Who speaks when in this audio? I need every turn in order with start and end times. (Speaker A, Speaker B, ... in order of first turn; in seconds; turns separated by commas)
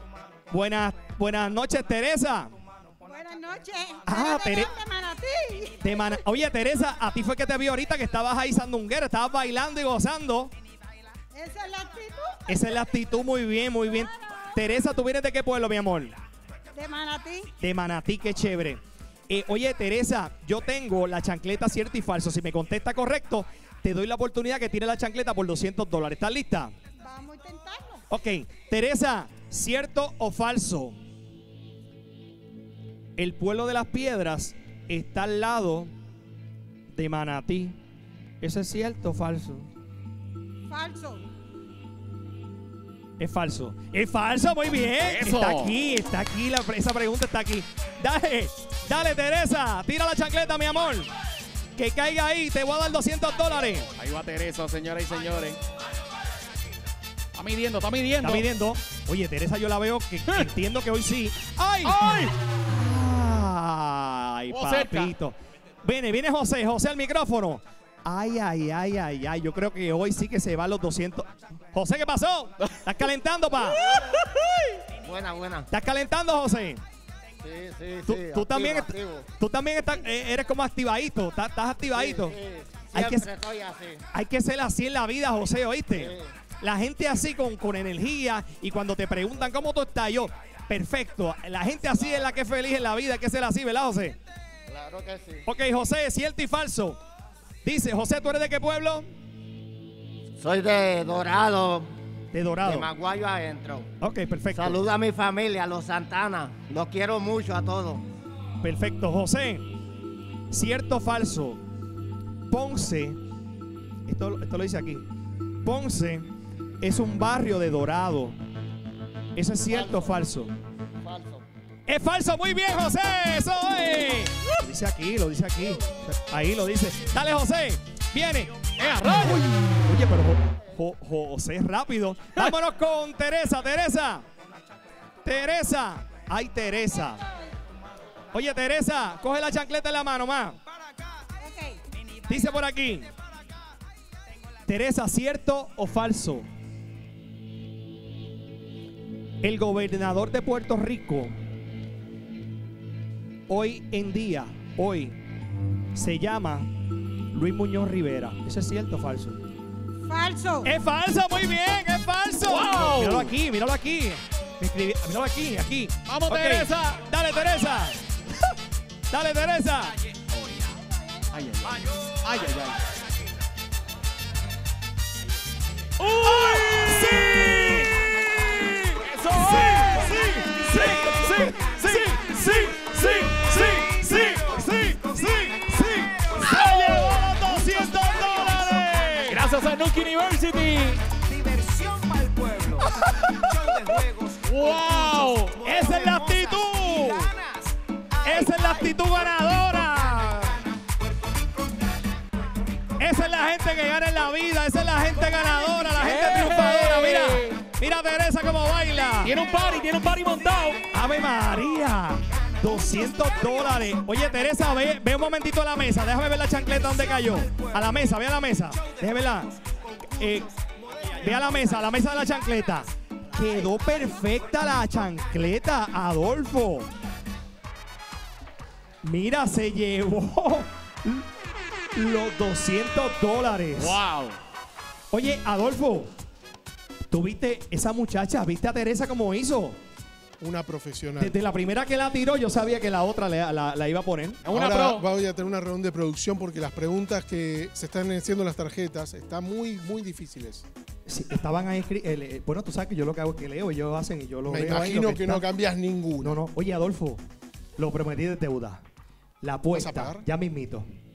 Speaker A: 0.5-2.5, Speaker B: 3.0-6.2, Speaker A: 4.0-4.7, Speaker A: 5.8-10.5, Speaker B: 11.3-12.5, Speaker A: 12.5-16.1, Speaker B: 16.7-17.5, Speaker A: 17.6-26.7, Speaker B: 27.0-28.1, Speaker A: 28.1-30.9, Speaker A: 33.2-35.9, Speaker A: 36.9-37.8, Speaker A: 38.4-39.7, Speaker B: 40.7-41.3, Speaker A: 43.2-51.1, Speaker C: 45.0-45.8, Speaker A: 51.8-53.9, Speaker C: 54.0-55.6, Speaker C: 57.3-58.4, Speaker A: 58.2-74.0, Speaker C: 61.8-62.3, Speaker C: 64.5-65.1, Speaker C: 73.9-74.8, Speaker D: 75.0-75.7, Speaker A: 75.7-76.8, Speaker D: 77.4-79.3, Speaker A: 78.0-82.3, Speaker D: 81.9-84.0, Speaker A: 82.9-83.3, Speaker A: 84.1-94.2, Speaker D: 85.9-86.3, Speaker D: 94.7-95.5, Speaker A: 95.4-97.0, Speaker A: 97.6-99.0, Speaker D: 100.4-101.9, Speaker A: 102.3-102.9, Speaker D: 102.6-103.9, Speaker A: 104.0-104.8, Speaker D: 104.5-108.0, Speaker A: 108.6-109.6, Speaker A: 110.5-111.6, Speaker A: 112.5-113.2, Speaker A: 114.0-115.0, Speaker A: 115.6-116.3, Speaker A: 116.8-118.4, Speaker A: 119.3-120.5, Speaker D: 119.7-120.2, Speaker D: 121.0-121.4, Speaker A: 121.9-128.5, Speaker C: 128.8-129.4, Speaker A: 129.2-134.2, Speaker A: 135.2-137.2, Speaker A: 138.3-140.6, Speaker B: 141.4-141.8, Speaker A: 142.2-143.1, Speaker A: 144.7-146.5, Speaker A: 149.4-151.3, Speaker A: 153.5-155.2, Speaker A: 155.9-156.7, Speaker A: 157.3-159.4, Speaker B: 160.1-160.7, Speaker A: 160.6-168.0, Speaker C: 162.4-163.3, Speaker C: 166.1-167.0, Speaker A: 169.1-169.9, Speaker C: 170.3-170.6, Speaker C: 171.3-172.8, Speaker C: 176.0-184.4, Speaker A: 176.4-177.8, Speaker A: 179.3-189.4, Speaker C: 186.5-187.1, Speaker C: 189.3-191.0, Speaker D: 191.4-192.5, Speaker C: 194.4-195.8, Speaker A: 195.6-197.3, Speaker A: 198.2-200.6, Speaker A: 203.0-209.3, Speaker C: 206.0-207.6, Speaker C: 209.2-210.8, Speaker A: 210.9-219.5, Speaker A: 220.2-220.5, Speaker A: 221.2-226.9, Speaker A: 229.0-231.2, Speaker A: 231.9-234.0, Speaker C: 233.8-234.3, Speaker A: 235.1-236.1, Speaker A: 237.1-239.8, Speaker E: 240.4-241.4, Speaker A: 241.2-244.4, Speaker C: 244.4-245.0, Speaker E: 244.5-250.7, Speaker A: 251.1-255.4, Speaker E: 254.4-256.4, Speaker A: 256.2-257.2, Speaker A: 257.8-258.8, Speaker A: 259.4-260.9, Speaker E: 259.7-260.2